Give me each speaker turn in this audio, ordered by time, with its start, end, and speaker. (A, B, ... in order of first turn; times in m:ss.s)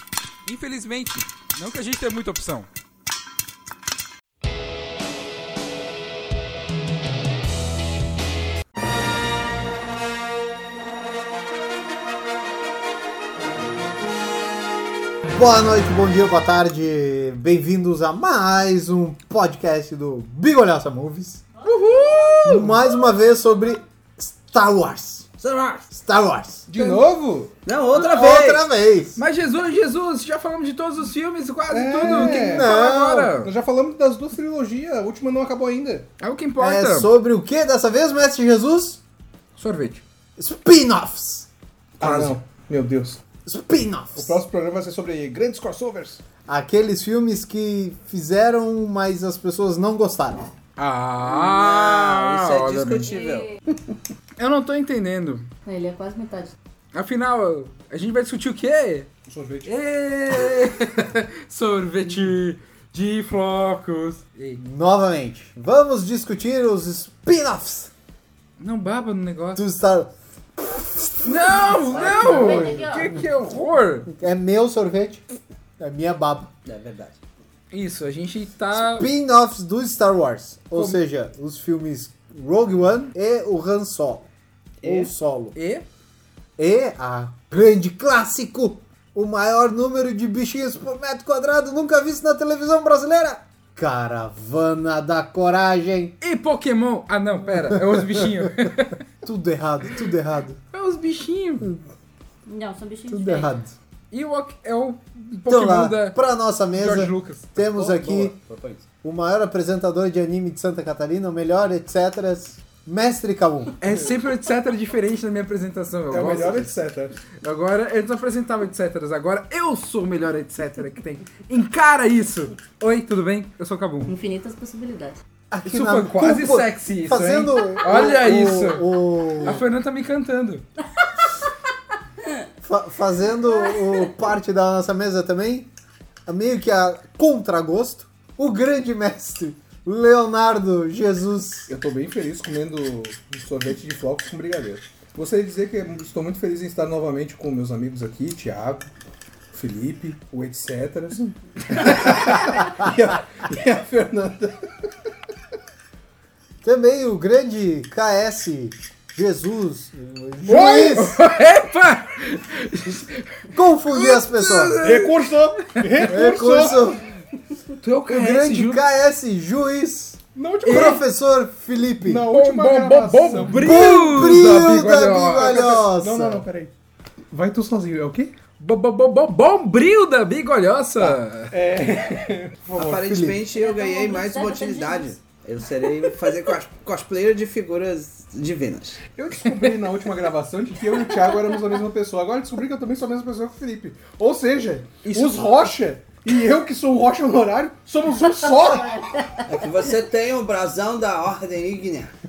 0:00.4-0:02.7 A
0:15.2-0:21.4 B
0:21.6-0:22.8 A
0:22.4-0:25.3 B
0:25.4-0:25.9 C
0:25.9-0:26.7 B
0:26.7-0:27.5 D
0:26.8-0:27.0 A
0:27.6-0:28.7 C
0:27.9-0:29.2 B
0:29.2-0:33.5 A
0:31.7-0:32.7 D
0:32.0-0:33.3 B
0:33.3-0:36.1 D
0:36.2-0:37.1 A
0:36.6-0:39.0 B
0:39.6-0:40.0 A
0:40.4-0:41.5 B
0:42.0-0:43.2 D
0:42.0-0:42.3 A
0:43.4-0:44.4 B
0:44.2-0:46.2 D
0:46.4-0:50.5 B
0:50.8-0:53.1 A
0:51.2-0:53.5 C
0:53.0-0:53.6 E
0:54.4-0:55.5 A
0:55.6-0:56.6 E
0:56.9-0:59.1 A
0:59.2-0:59.7 D
0:59.6-1:04.6 A
1:04.6-1:07.9 B
1:08.6-1:09.6 A
1:09.6-1:13.2 B
1:11.2-1:14.1 A
1:12.0-1:12.8 C
1:12.0-1:13.1 E
1:14.1-1:15.2 B
1:15.8-1:16.5 B
1:16.6-1:17.2 C
1:17.7-1:19.1 A
1:18.8-1:24.3 B
1:24.8-1:25.1 C
1:24.8-1:25.5 B
1:25.5-1:25.8 A
1:26.6-1:36.2 B
1:36.2-1:39.0 A
1:37.6-1:38.7 B
1:39.2-1:40.6 B
1:40.7-1:41.7 A
1:42.4-1:43.5 E
1:43.1-1:43.8 B
1:44.1-1:46.2 A
1:45.5-1:48.4 B
1:46.7-1:47.5 A
1:47.6-1:48.8 C
1:49.0-1:53.8 B
1:53.8-1:56.8 A
1:56.1-1:57.1 D
1:57.4-2:04.1 A
2:04.1-2:05.2 E
2:05.5-2:09.6 B
2:05.6-2:08.9 A
2:09.4-2:10.6 A
2:12.6-2:15.7 B
2:16.2-2:21.7 B
2:21.7-2:28.9 D
2:29.5-2:34.8 D
2:36.6-2:41.2 B
2:40.4-2:45.1 A
2:43.5-2:44.8 B
2:44.8-2:47.0 D
2:46.0-2:47.0 B
2:47.8-2:48.8 A
2:48.1-2:52.3 B
2:50.4-2:51.0 D
2:50.6-2:51.0 A
2:52.0-2:54.2 D
2:52.3-2:55.6 A
2:53.4-2:56.4 B
2:55.4-2:56.7 D
2:57.3-2:58.3 D
2:58.6-3:01.5 A
3:01.5-3:02.9 D
3:02.7-3:09.0 C
3:02.8-3:03.4 B
3:03.5-3:05.2 E
3:09.1-3:19.4 D
3:09.4-3:09.8 A
3:15.0-3:15.5 C
3:18.6-3:19.4 E
3:19.4-3:22.1 C